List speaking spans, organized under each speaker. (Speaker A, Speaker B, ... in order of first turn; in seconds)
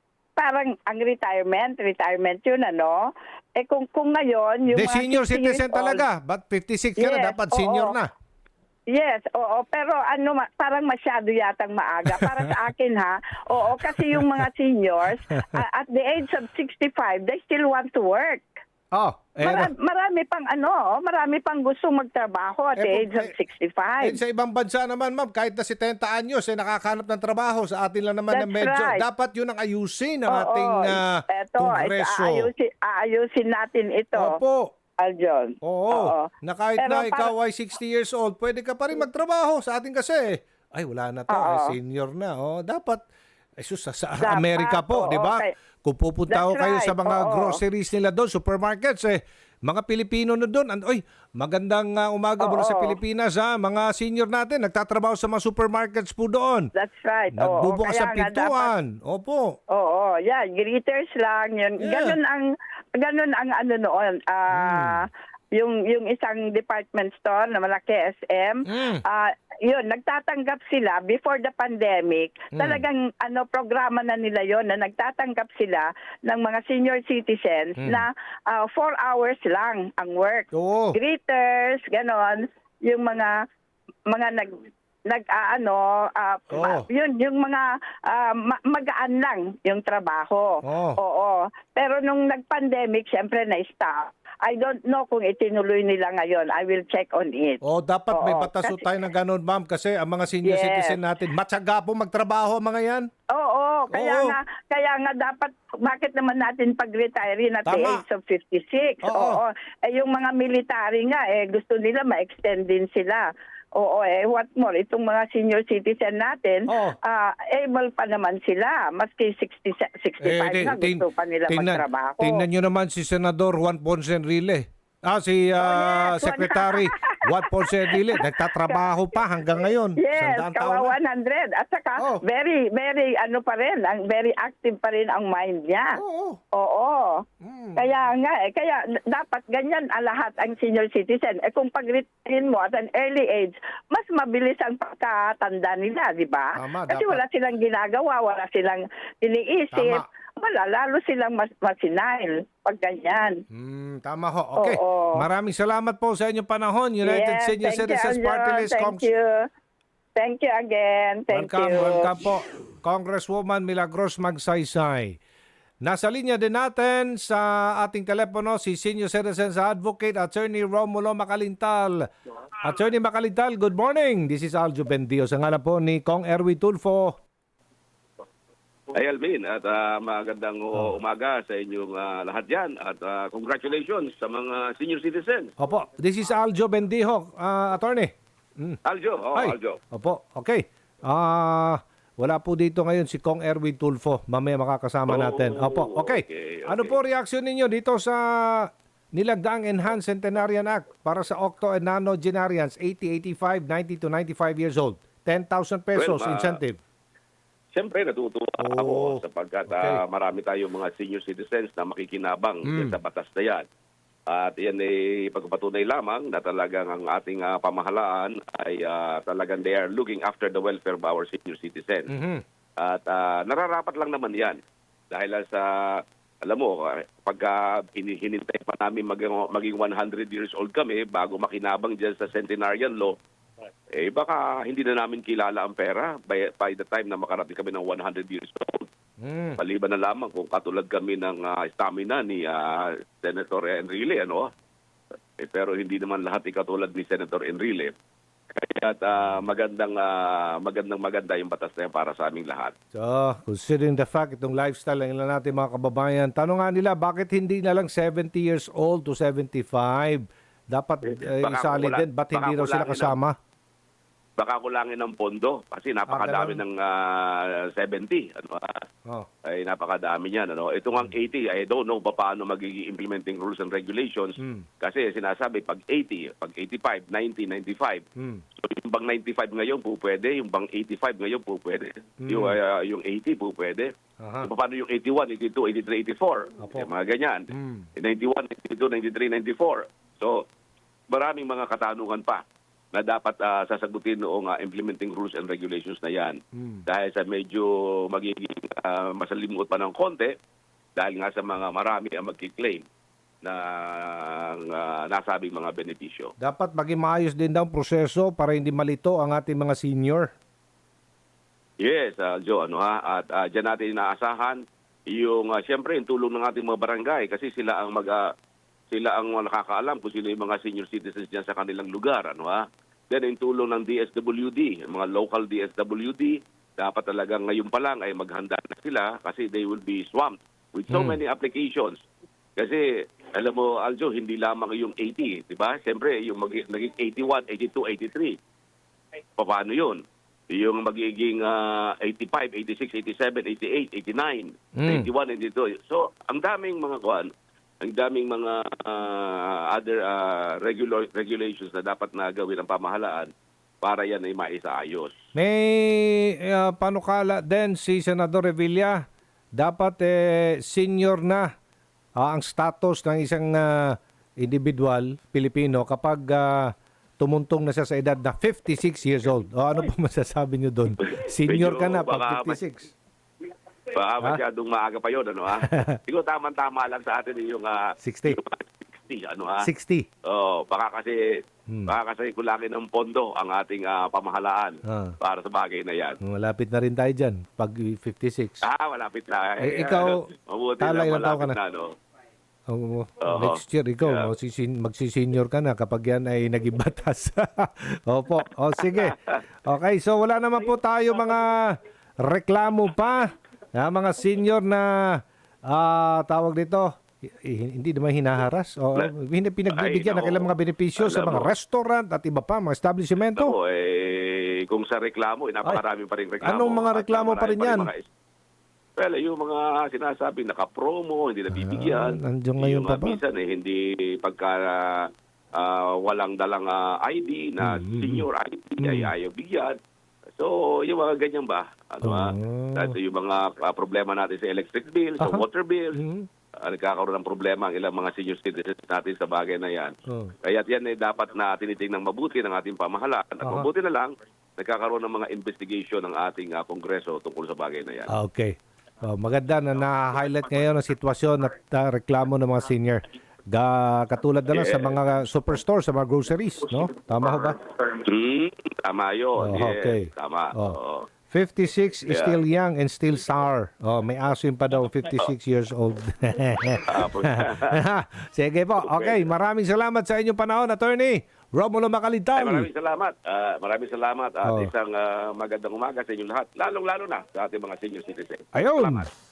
Speaker A: 0.4-6.0, 7.0-8.0, 8.9-18.5, 19.4-24.2, 28.3-29.1, 30.3-34.4, 35.0-37.3, 41.3-41.8, 44.2-45.5, 46.3-47.6, 52.4-53.0, 56.8-58.7, 59.7-83.3, 84.1-97.6, 98.1-98.8, 100.4-101.0, 103.3-122.5, 125.6-128.9, 130.0-136.0, 136.5-137.2, 137.8-153.4, 154.6-155.2, 157.0-159.5, 160.2-162.1
Speaker B: 4.7-8.1, 12.1-12.5, 13.9-14.4, 18.9-19.7, 22.8-23.3, 24.0-32.5, 34.2-34.7, 35.6-43.0, 43.6-56.7, 57.3-59.6, 61.8-62.2, 64.5-65.0, 68.7-69.0, 72.5-72.8, 77.8-78.1, 80.5-81.0, 86.5-86.9, 90.7-91.0, 97.6-103.1, 103.9-104.4, 107.7-108.0, 109.0-109.4, 116.7-117.0, 120.2-131.0, 136.0-136.4, 137.4-137.9, 146.6-147.2, 149.7-150.0, 153.5-159.1, 161.3-165.2, 165.8-172.1, 172.6-177.2, 185.6-188.8, 189.3-206.8, 208.6-210.0, 212.6-213.0, 222.1-222.4, 239.2-239.6, 252.9-263.4, 266.1-266.6, 274.4-274.6, 278.2-278.4, 282.2-282.6, 284.2-284.5, 286.6-286.9, 287.5-287.9, 296.5-296.8, 306.4-310.3, 330.9-331.2, 344.8-345.1, 355.4-359.0, 359.6-361.5, 362.2-372.9, 375.6-375.9, 378.0-378.4, 379.6-380.1, 381.7-381.9, 384.9-385.1, 386.2-388.6, 389.6-390.2, 390.8-391.6, 392.7-413.6, 416.4-417.9, 421.5-423.2, 427.6-428.3, 428.8-429.1, 432.0-433.0, 435.2-436.3, 440.1-440.3, 443.4-443.7, 448.1-457.6, 459.4-460.8, 461.3-472.7, 474.4-474.7, 478.5-479.1
Speaker C: 178.9-185.5, 188.8-189.8, 195.1-197.0, 206.0-206.6, 207.7-213.7, 214.3-222.1, 222.8-233.2, 233.9-238.9, 239.6-244.5, 245.4-247.9, 248.6-252.7, 261.1-263.2, 264.4-268.8, 269.4-278.0, 278.6-283.9, 284.4-290.4, 291.1-300.3, 301.0-302.9, 303.4-306.3, 311.8-318.3, 318.9-332.0, 332.6-338.4, 339.4-347.3, 347.8-355.1, 371.1-372.6, 373.9-379.7, 380.3-381.2, 381.9-386.2, 388.6-391.9, 393.2-394.3, 398.8-399.4, 409.7-411.5, 413.4-418.0, 419.0-429.8, 430.4-436.0, 436.6-448.1, 454.5-455.0, 456.7-461.1, 462.1-462.4, 466.9-467.8, 468.8-469.3, 472.4-479.1